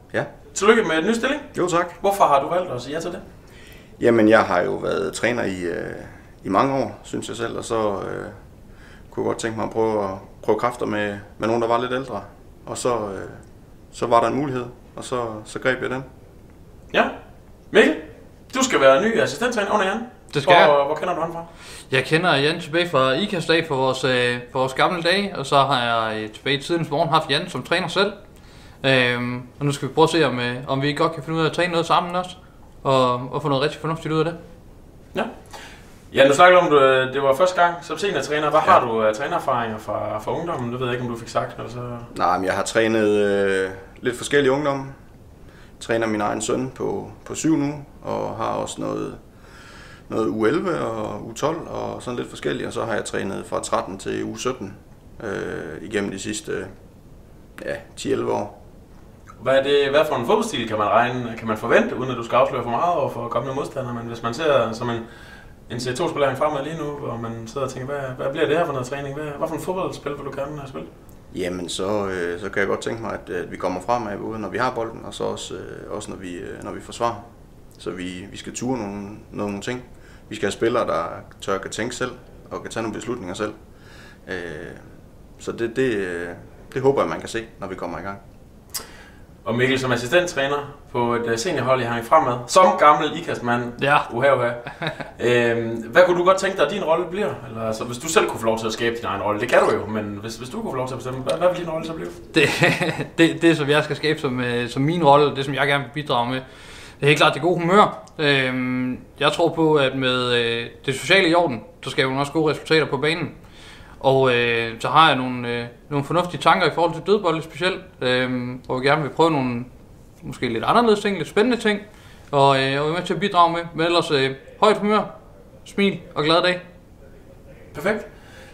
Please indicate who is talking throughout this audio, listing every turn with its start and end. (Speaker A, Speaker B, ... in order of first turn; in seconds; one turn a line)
Speaker A: 0.5-1.5
Speaker B: 1.5-2.0
Speaker A: 2.0-3.2
Speaker B: 4.0-8.3
Speaker B: 9.1-16.1
Speaker A: 17.7-21.5
Speaker C: 20.3-20.7
Speaker C: 21.9-28.1
Speaker C: 28.8-34.4
Speaker A: 36.1-42.1
Speaker B: 42.1-44.9
Speaker B: 45.8-49.2
Speaker B: 50.1-56.7
Speaker B: 57.6-58.6
Speaker A: 59.4-65.0
Speaker A: 65.7-70.9
Speaker B: 71.3-77.2
Speaker B: 77.8-83.5
Speaker B: 84.2-84.8
Speaker B: 85.4-88.2
Speaker A: 89.4-94.6
Speaker C: 93.8-94.1
Speaker A: 95.1-102.2
Speaker C: 102.3-106.4
Speaker C: 107.0-113.4
Speaker C: 114.0-125.1
Speaker C: 125.6-126.6
Speaker A: 127.7-128.1